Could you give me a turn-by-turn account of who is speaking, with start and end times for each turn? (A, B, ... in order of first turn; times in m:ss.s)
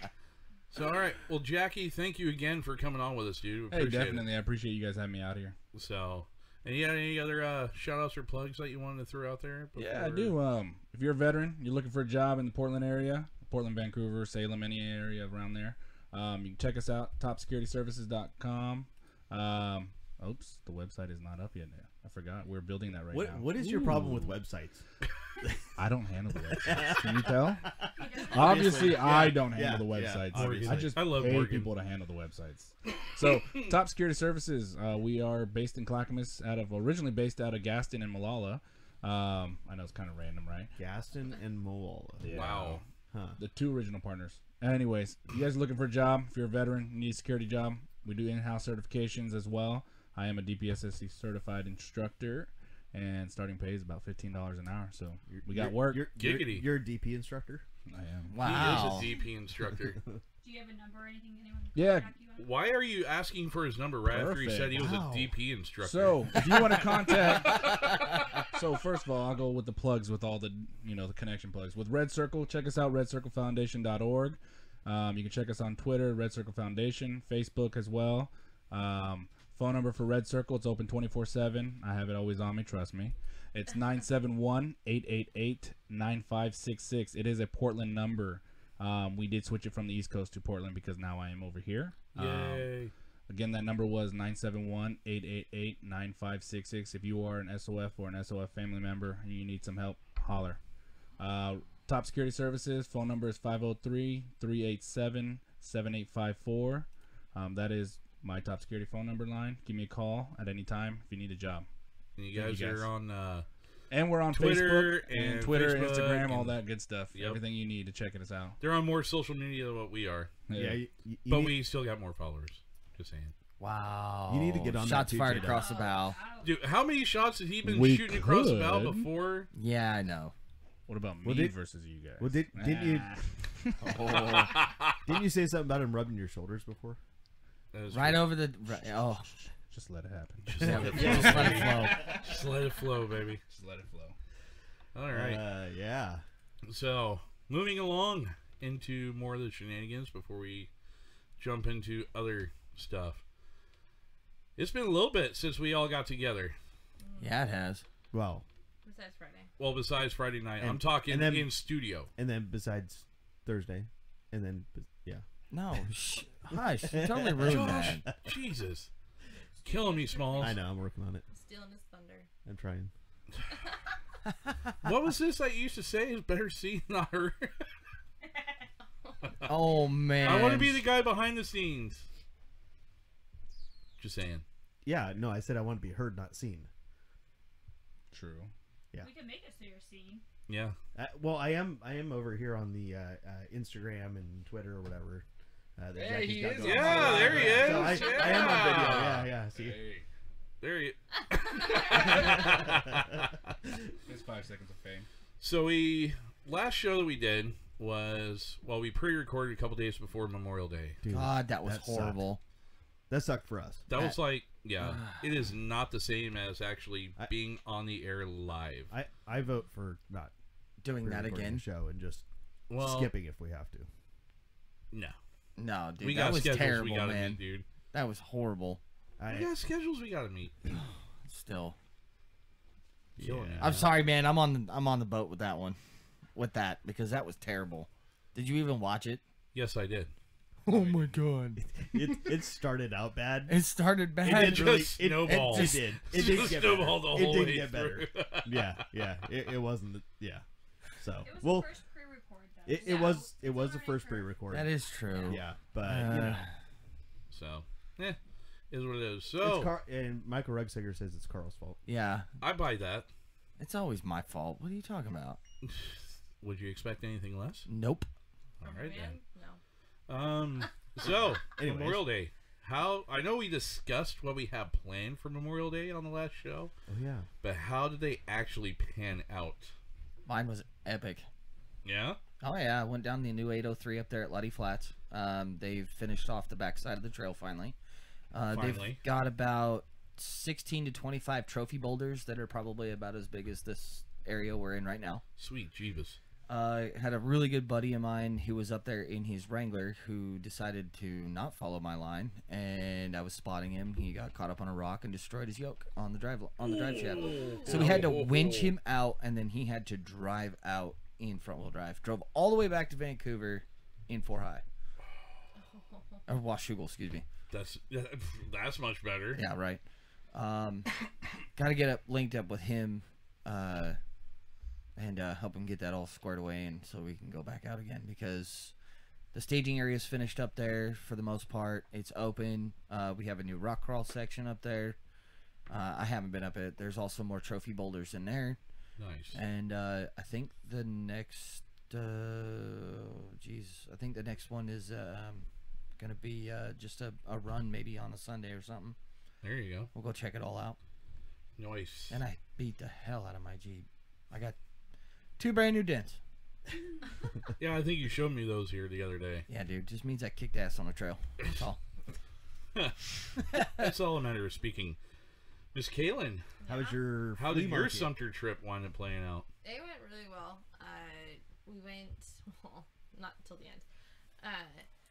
0:00.7-0:04.3 A
0:03.7-0:05.6 B
0:05.7-0:10.4 A
0:09.8-0:24.3 B
0:23.1-0:24.8 C
0:25.8-0:27.7 B
0:26.6-0:31.0 C
0:28.0-0:29.0 D
0:28.3-0:40.7 B
0:30.3-0:31.7 A
0:40.8-0:42.4 C
0:42.2-0:42.8 B
0:42.3-0:42.8 A
0:43.1-0:43.4 C
0:43.4-0:56.1 B
0:55.3-0:57.7 C
0:56.2-0:56.7 A
0:57.9-0:58.8 B
0:58.3-0:59.1 E
0:58.4-1:00.0 A
1:00.4-1:02.5 D
1:01.8-1:02.2 B
1:02.4-1:06.6 A
1:04.0-1:04.9 B
1:04.8-1:05.3 C
1:05.8-1:07.9 B
1:06.4-1:06.8 C
1:07.5-1:07.9 A
1:08.5-1:32.8 B
1:32.1-1:32.9 A
1:33.3-1:40.6 B
1:41.2-1:51.7 B
1:52.2-1:53.5 A
1:52.3-1:52.9 B
1:53.9-1:58.6 B
1:54.3-1:56.6 A
1:57.1-1:57.4 A
1:58.6-2:00.3 A
2:00.5-2:00.8 B
2:00.5-2:01.6 C
2:01.3-2:03.3 A
2:03.6-2:06.2 E
2:04.3-2:05.7 C
2:05.4-2:06.6 D
2:06.4-2:09.5 A
2:07.6-2:09.1 B
2:09.5-2:10.3 E
2:10.9-2:13.9 B
2:11.2-2:11.6 C
2:12.2-2:13.2 C
2:13.8-2:14.6 E
2:14.4-2:14.9 A
2:15.0-2:17.0 C
2:17.7-2:18.3 A
2:17.9-2:19.3 E
2:19.7-2:22.2 B
2:20.5-2:23.4 A
2:20.6-2:22.1 E
2:20.9-2:21.9 C
2:23.5-2:24.2 B
2:25.0-2:25.4 A
2:25.1-2:26.2 C
2:26.7-2:30.7 A
2:31.4-2:33.2 A
2:34.6-2:36.6 A
2:37.0-2:37.4 F
2:37.2-2:37.8 E
2:38.1-2:38.4 C
2:38.8-2:39.5 F
2:39.6-2:42.1 A
2:40.6-2:41.6 C
2:42.2-2:45.2 C
2:45.5-2:48.0 E
2:46.5-2:47.9 C
2:47.4-2:48.9 A
2:49.6-2:50.6 A
2:49.7-2:50.5 D
2:50.4-2:51.3 C
2:51.3-2:52.3 F
2:52.4-2:52.9 C
2:54.8-2:57.5 A
2:58.2-2:58.7 D
2:59.0-2:59.4 F
2:59.4-3:00.8 E
3:00.2-3:02.1 A
3:04.0-3:04.4 A
3:04.8-3:06.7 C
3:08.1-3:08.5 B
3:09.0-3:10.2 D
3:10.5-3:10.8 A
3:11.0-3:15.2 C
3:15.8-3:19.9 C
3:15.9-3:20.1 B
3:16.6-3:19.3 A
3:20.6-3:23.3 A
3:21.9-3:23.0 C
3:24.1-3:25.1 B
3:25.4-3:31.0 A
3:31.0-3:32.2 C
3:31.1-3:32.4 E
3:33.1-3:33.8 C
3:33.9-3:38.9 A
3:34.8-3:35.2 E
3:38.9-3:40.3 C
3:40.8-3:41.6 E
3:41.0-3:42.2 C
3:42.7-3:43.1 A
3:42.8-3:43.9 C
3:45.6-3:47.4 E
3:46.0-3:47.7 A
3:47.9-3:48.8 E
3:49.2-3:49.5 C
3:49.3-3:50.6 A
3:51.2-3:51.8 E
3:53.2-3:53.8 C
3:53.2-3:53.9 A
3:53.6-3:55.8 E
3:56.4-3:59.2 E
3:59.5-4:00.1 A
4:00.7-4:02.2 E
4:01.6-4:03.6 C
4:03.5-4:06.5 E
4:04.2-4:10.4 C
4:04.3-4:08.8 A
4:11.0-4:11.7 C
4:11.2-4:14.4 D
4:12.7-4:14.7 C
4:14.5-4:16.6 E
4:15.3-4:16.4 C
4:17.3-4:18.2 A
4:18.7-4:19.8 A
4:19.4-4:21.8 C
4:21.9-4:22.3 E
4:22.4-4:23.1 A
4:23.6-4:25.4 E
4:25.6-4:27.7 A
4:27.7-4:28.1 E
4:28.6-4:29.2 A
4:28.6-4:29.6 F
4:30.1-4:36.7 A
4:31.0-4:32.1 C
4:36.9-4:37.3 C
4:37.4-4:39.7 A
4:40.3-4:41.3 E
4:41.8-4:42.2 A
4:42.4-4:47.8 E
4:48.3-4:55.2 E
4:48.5-4:49.0 A
4:55.4-4:56.2 A
4:56.5-5:14.6 E
5:06.6-5:08.8 A
5:15.6-5:16.2 F
5:16.3-5:17.3 E
5:17.5-5:19.4 A
5:19.3-5:21.0 E
5:21.5-5:24.0 E
5:25.0-5:28.7 E
5:29.3-5:35.0 E
5:35.7-5:38.6 E
5:39.0-5:39.4 A
5:39.3-5:45.5 E
5:46.0-5:49.0 E
5:49.4-5:49.9 A
5:49.9-5:50.8 E
5:51.6-5:52.2 A
5:52.1-5:54.6 E
5:55.4-5:56.2 E
5:57.6-5:59.5 A
5:59.5-6:01.8 E
6:03.6-6:05.0 A
6:05.7-6:06.4 A
6:06.6-6:07.0 F
6:06.7-6:08.2 C
6:07.4-6:09.5 A
6:09.6-6:13.9 F
6:14.4-6:14.8 F